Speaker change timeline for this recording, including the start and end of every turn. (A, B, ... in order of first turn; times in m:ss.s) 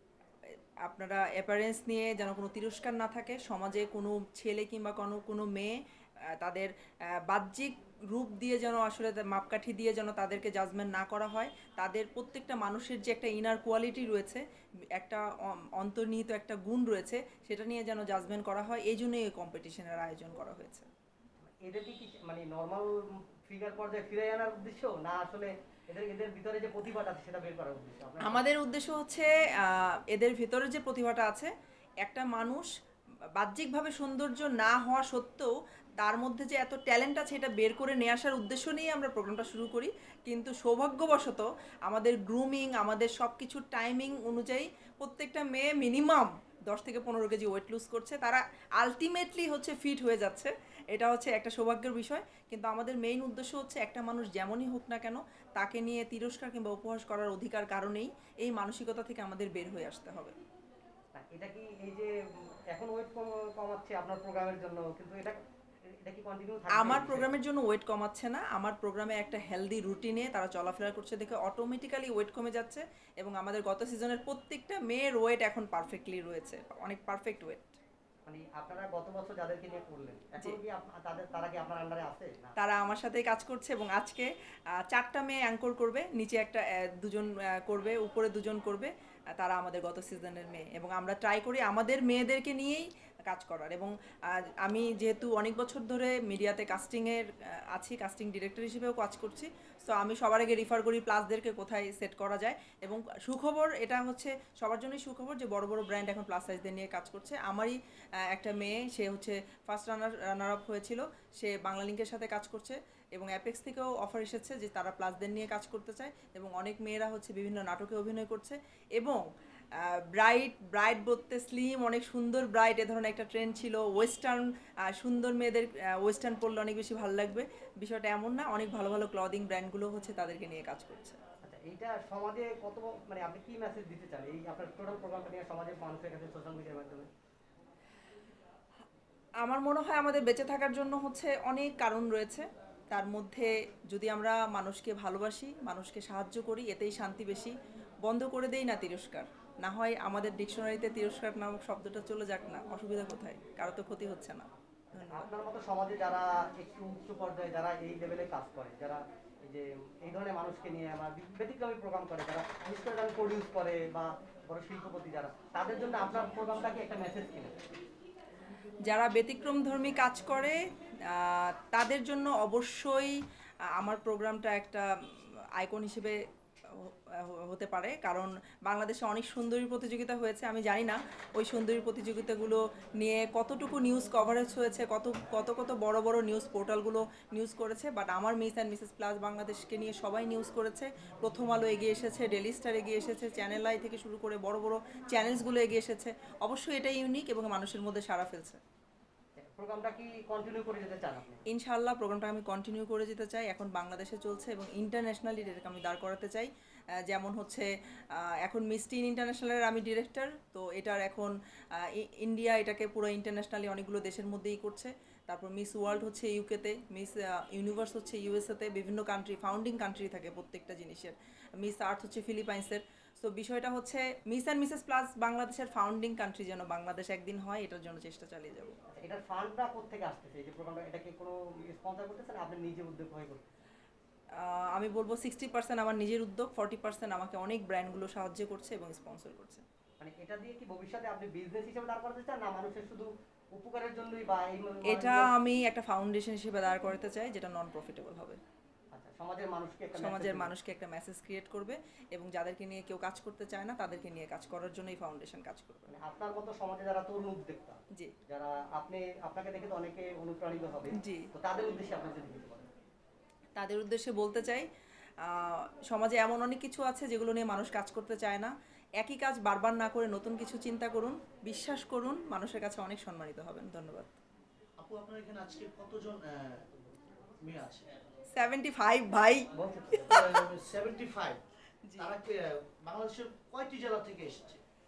0:00.5-0:14.4 A
0:15.0-0:20.9 A
0:21.6-0:28.4 B
0:28.2-0:31.5 A
0:32.0-0:32.7 A
0:33.4-1:00.4 A
1:01.1-1:02.1 B
1:02.7-1:05.4 B
1:06.0-1:07.4 B
1:06.7-1:17.8 A
1:18.3-1:22.6 B
1:22.6-1:47.8 A
1:48.3-1:59.2 A
1:59.8-2:11.2 A
2:11.4-2:17.1 B
2:19.4-2:35.3 A
2:34.9-2:47.6 B
2:48.9-2:53.2 A
2:53.8-3:18.6 A
3:19.4-3:21.4 B
3:21.5-3:26.5 A
3:27.0-3:48.8 A
3:48.9-3:53.5 B
3:54.4-3:59.6 A
4:00.0-4:05.3 B
4:04.9-4:08.4 A
4:08.9-4:10.5 B
4:10.0-4:15.9 A
4:15.9-4:22.7 B
4:21.0-4:21.3 A
4:23.6-4:24.7 A
4:25.2-4:34.1 A
4:34.8-4:36.8 C
4:37.3-4:38.0 C
4:38.3-4:40.2 A
4:39.6-4:40.1 B
4:40.0-4:41.4 C
4:41.8-4:42.2 A
4:42.0-4:44.6 C